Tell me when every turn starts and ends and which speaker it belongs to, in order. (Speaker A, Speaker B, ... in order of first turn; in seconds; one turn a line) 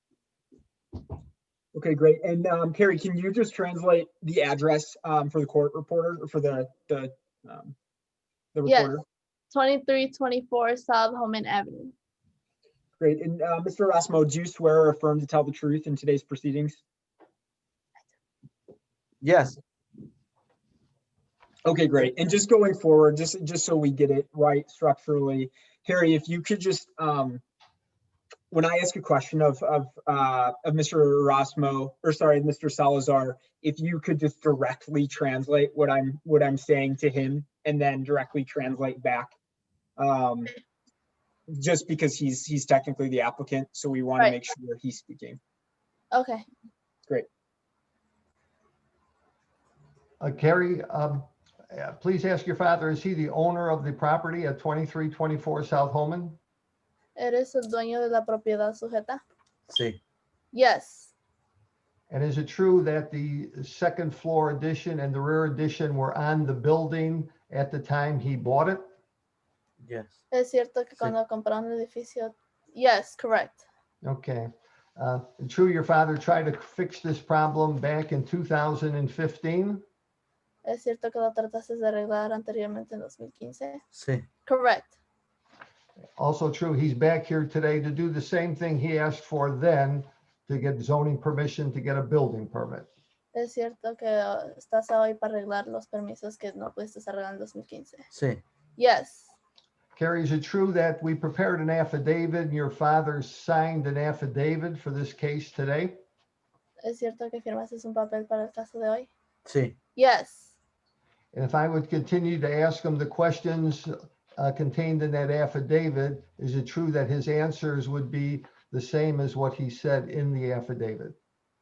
Speaker A: 1.7-7.8
Speaker A: 8.5-9.0
Speaker B: 8.7-9.0
Speaker B: 9.5-11.9
Speaker A: 13.0-16.8
Speaker C: 19.2-19.6
Speaker A: 21.6-27.4
Speaker A: 28.5-39.4
Speaker A: 40.0-40.5
Speaker A: 41.5-45.4
Speaker B: 46.1-46.5
Speaker D: 50.2-56.4
Speaker B: 57.2-59.2
Speaker C: 59.7-60.0
Speaker B: 60.5-61.1
Speaker D: 62.1-68.8
Speaker C: 69.8-70.1
Speaker B: 70.3-73.6
Speaker D: 74.0-79.8
Speaker B: 80.6-83.8
Speaker C: 83.9-84.2
Speaker B: 84.5-84.9
Speaker D: 86.2-92.9
Speaker B: 93.3-98.1
Speaker C: 98.1-98.4
Speaker B: 98.8-99.3
Speaker D: 100.0-106.0
Speaker B: 106.8-109.1
Speaker C: 109.5-109.8
Speaker B: 110.0-110.5
Speaker D: 111.3-121.2